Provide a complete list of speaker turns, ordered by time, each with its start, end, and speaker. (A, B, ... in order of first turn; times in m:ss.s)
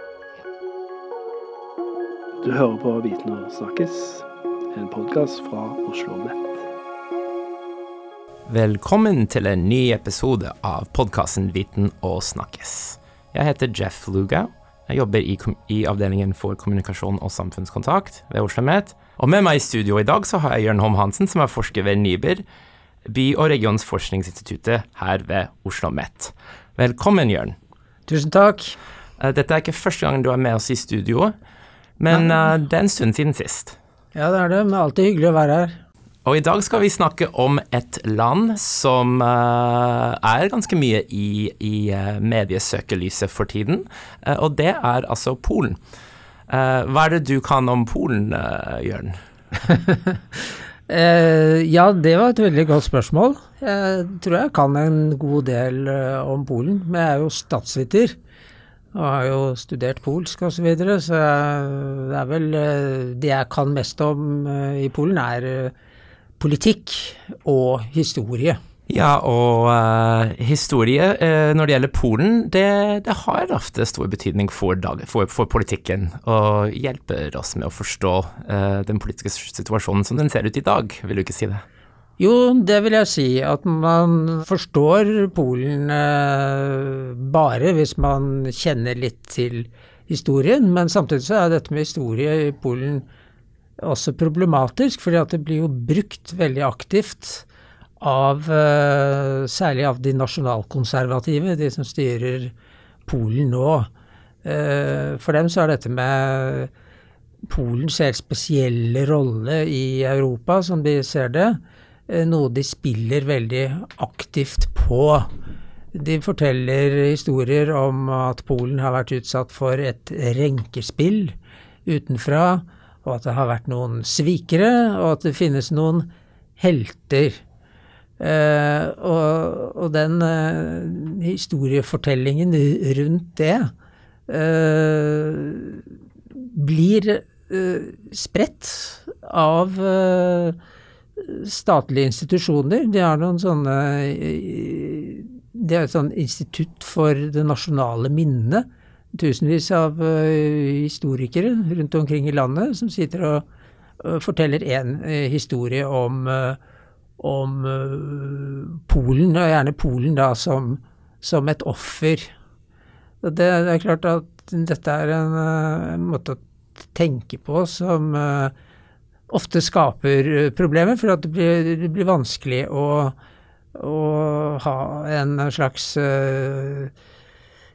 0:02.4-0:06.6 A
0:08.5-0:22.4 B
0:23.0-0:27.6 B
0:28.1-0:28.8 C
0:29.2-0:31.3 B
0:32.0-0:33.8 B
0:34.1-0:35.8 C
0:36.2-0:45.8 B
0:46.5-0:49.2 B
0:49.7-0:58.2 C
0:58.9-1:05.7 C
1:06.4-1:08.6 C
1:08.9-1:21.6 B
1:22.2-1:33.0 C
1:33.8-1:37.4 C
1:38.0-1:42.5 C
1:43.0-1:43.9 C
1:44.4-1:46.7 C
1:47.5-1:55.3 C
1:55.9-2:01.3 C
2:01.8-2:07.4 C
2:08.2-2:13.7 C
2:14.3-2:15.8 C
2:16.4-2:20.6 C
2:21.2-2:33.4 C
2:34.0-2:36.6 C
2:37.2-2:42.3 C
2:43.2-2:46.4 C
2:46.9-2:48.5 C
2:49.3-2:53.2 C
2:53.7-2:56.9 C